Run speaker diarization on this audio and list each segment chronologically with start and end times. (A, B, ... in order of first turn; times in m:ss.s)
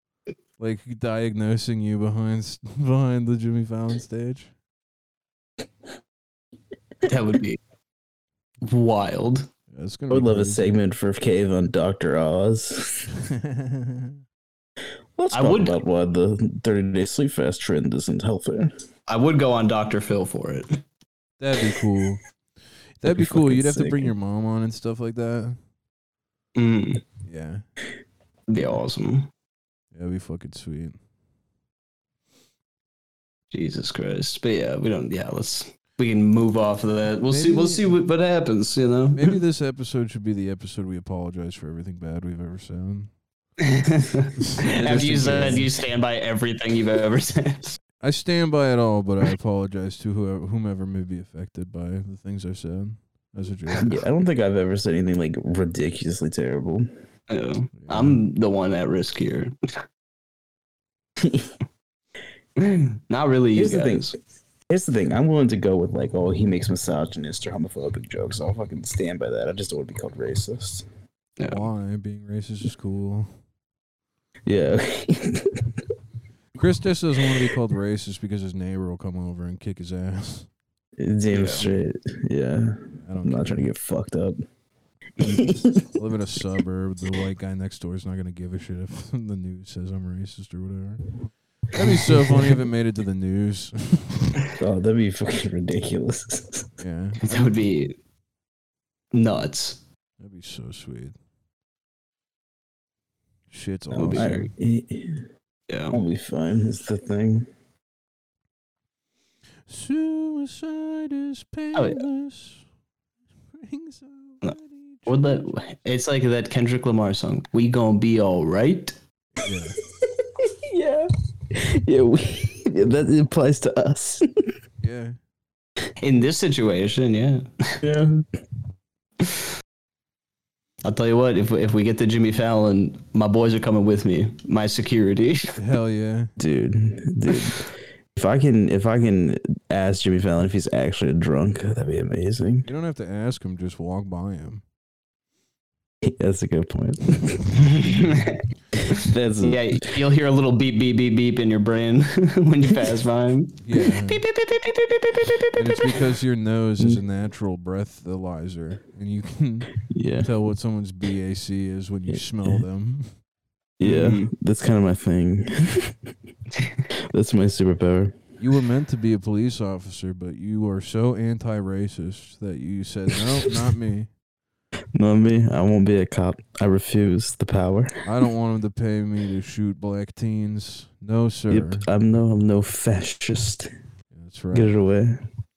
0:00.6-0:04.5 A
0:07.1-0:07.6 B
0:08.6-0:09.5 B
0:09.7-0:10.7 A
0:10.1-0:13.1 C
0:13.2-0:14.2 A
0:15.2-0:18.7 C
0:15.3-0:15.8 B
0:19.1-0:20.8 B
0:21.4-0:22.2 A
0:23.0-0:25.6 A
0:23.1-0:24.1 C
0:26.6-0:27.0 B
0:27.2-0:27.6 A
0:28.5-0:29.3 B
0:29.9-0:31.0 A
0:33.5-0:39.4 B
0:37.3-0:37.9 A
0:39.2-0:43.1 A
0:43.6-0:47.8 B
0:44.4-0:45.7 A
0:48.0-0:54.0 A
0:53.8-0:56.9 C
0:57.3-0:59.6 B
0:57.8-0:58.2 A
1:01.2-1:01.5 C
1:02.6-1:04.1 B
1:03.5-1:04.1 C
1:04.7-1:10.8 C
1:11.5-1:13.3 A
1:14.5-1:15.8 C
1:16.6-1:20.5 A
1:21.0-1:24.4 C
1:21.3-1:21.7 B
1:23.0-1:23.7 A
1:25.2-1:25.8 C
1:25.5-1:31.1 A
1:31.7-1:34.4 A
1:31.8-1:32.6 C
1:34.6-1:36.7 C
1:36.8-1:37.4 A
1:37.2-1:38.0 B
1:39.1-1:39.8 B
1:40.2-1:41.2 A
1:43.5-1:44.3 A
1:43.9-1:44.5 B
1:44.1-1:45.3 C
1:45.7-1:46.0 B
1:45.9-1:47.5 C
1:49.7-1:52.6 A
1:51.8-1:52.0 B
1:53.5-1:55.4 A
1:55.1-1:58.9 B
1:59.4-1:59.8 A
2:00.4-2:04.3 C
2:04.8-2:05.2 A
2:06.0-2:07.8 B
2:07.8-2:08.2 C
2:10.8-2:15.6 B
2:15.6-2:16.3 A
2:16.4-2:22.7 C
2:22.7-2:24.6 A
2:26.0-2:28.1 C
2:27.5-2:36.0 B
2:29.0-2:30.0 C
2:33.6-2:34.2 A
2:35.5-2:43.2 A
2:39.9-2:40.3 C
2:42.1-2:42.6 C
2:43.8-2:46.0 C
2:43.8-2:44.3 B
2:47.1-2:48.2 C
2:48.4-2:54.1 A
2:55.0-2:58.0 C
2:58.0-3:01.8 A
3:01.5-3:03.7 C
3:04.1-3:04.7 A
3:04.5-3:05.2 C